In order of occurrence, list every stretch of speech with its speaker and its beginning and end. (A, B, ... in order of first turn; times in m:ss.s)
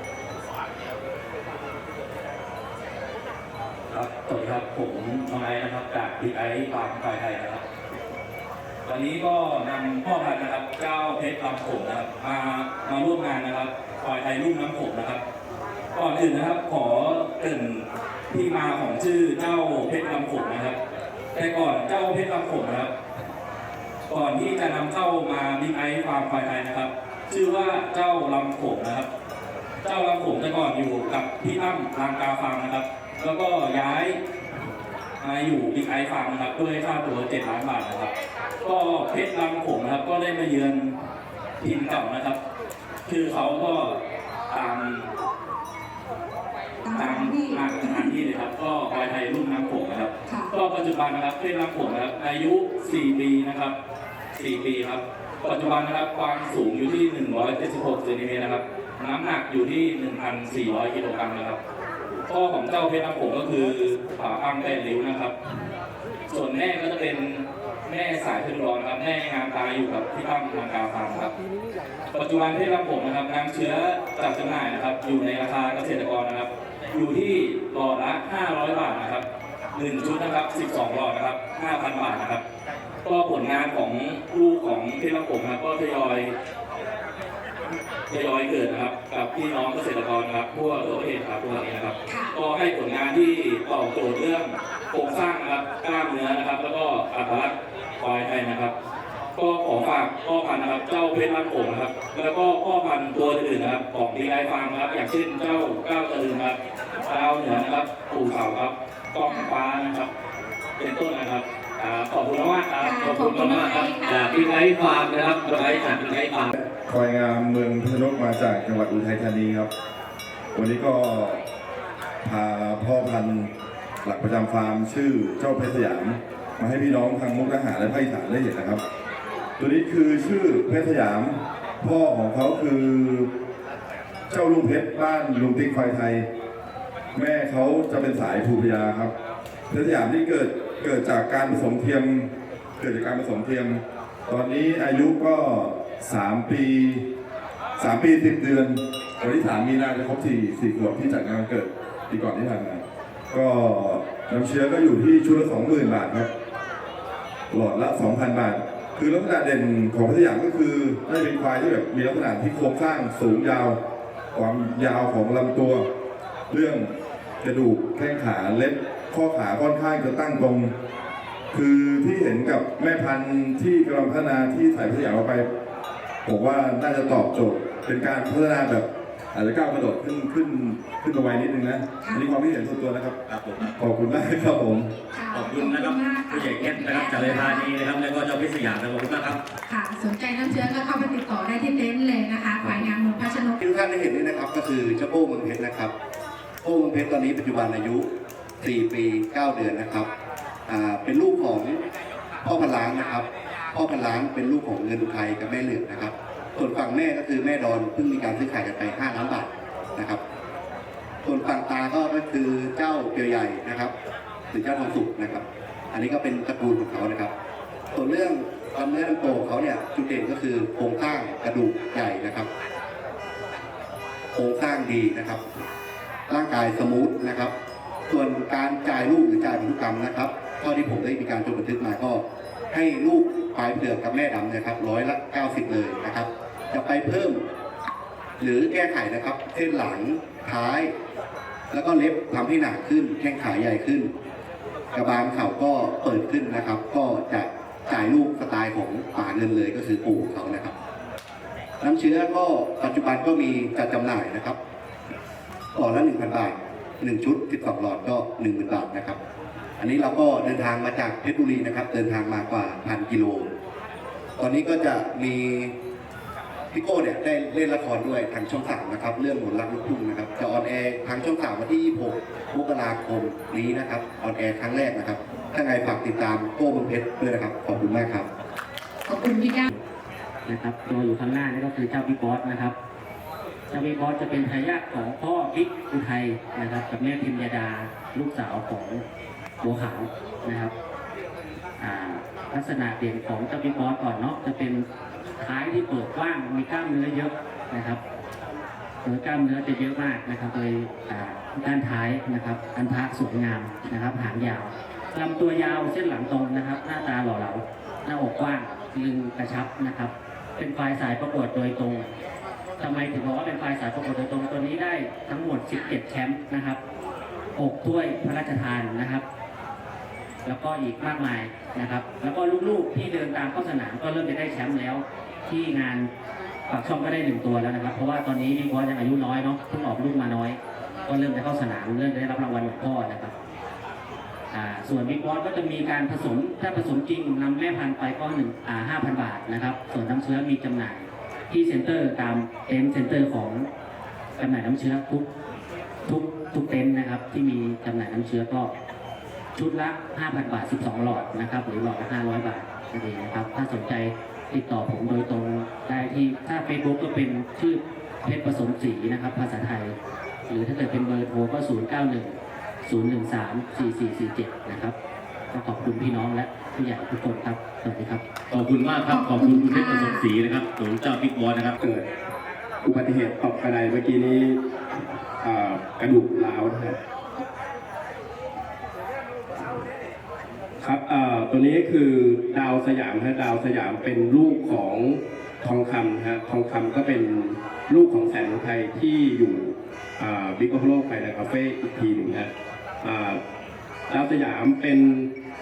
0:03.9-0:07.6 A
0:08.9-0:15.2 A
0:16.0-0:20.8 A
0:21.4-0:22.9 A
0:24.1-0:29.1 A
0:29.8-0:34.2 A
0:35.2-0:38.1 A
0:38.6-0:41.0 A
0:41.6-0:42.4 A
0:43.1-0:44.0 A
0:44.5-0:45.1 A
0:46.8-0:48.2 B
0:46.9-0:53.8 A
0:54.4-1:01.6 A
1:02.1-1:05.3 A
1:06.3-1:11.3 A
1:12.1-1:19.2 A
1:19.8-1:22.4 A
1:23.0-1:26.3 A
1:28.1-1:38.7 A
1:32.1-1:32.3 B
1:39.4-1:46.6 A
1:47.1-1:50.1 A
1:49.2-1:49.5 B
1:50.8-1:56.5 A
1:52.8-1:54.7 B
1:56.9-1:59.7 C
2:00.5-2:01.4 C
2:02.2-2:03.5 C
2:04.0-2:08.8 C
2:09.6-2:13.3 C
2:14.3-2:16.2 C
2:17.1-2:19.1 C
2:19.7-2:27.1 C
2:27.8-2:36.3 C
2:37.5-2:43.8 C
2:44.3-2:45.8 C
2:46.5-2:46.9 C
2:47.4-2:50.7 C
2:51.5-2:55.5 C
2:56.2-3:03.2 C
3:03.3-3:03.7 D
3:03.8-3:04.9 C
3:05.1-3:07.7 B
3:05.3-3:09.4 D
3:09.7-3:13.6 B
3:13.6-3:15.9 E
3:16.6-3:18.1 E
3:18.6-3:20.1 E
3:20.7-3:21.8 E
3:22.4-3:30.2 E
3:31.2-3:33.9 E
3:34.5-3:37.3 E
3:37.9-3:42.5 E
3:44.3-3:45.4 E
3:46.3-3:47.5 E
3:48.1-3:57.4 E
3:58.4-4:00.9 E
4:01.7-4:04.1 E
4:04.9-4:10.7 E
4:11.8-4:14.6 E
4:15.8-4:19.2 E
4:19.8-4:23.5 E
4:24.4-4:25.7 E
4:26.7-4:38.3 E
4:39.1-4:39.7 B
4:40.5-4:42.8 F
4:43.7-4:49.0 F
4:49.6-4:50.7 F
4:51.8-4:54.9 F
4:55.4-4:58.0 F
4:59.0-5:12.1 F
5:12.8-5:16.8 F
5:17.6-5:19.2 F
5:20.4-5:26.1 F
5:26.7-5:33.3 F
5:34.5-5:43.7 F
5:44.4-5:45.3 F
5:46.1-5:48.7 F
5:49.6-6:00.0 F
6:00.5-6:05.0 F
6:05.5-6:08.2 F
6:08.5-6:11.7 D
6:09.1-6:10.3 B
6:11.8-6:12.1 G
6:12.8-6:14.6 G
6:15.4-6:17.0 G
6:20.8-6:32.5 G
6:33.0-6:33.4 G
6:34.1-6:35.3 G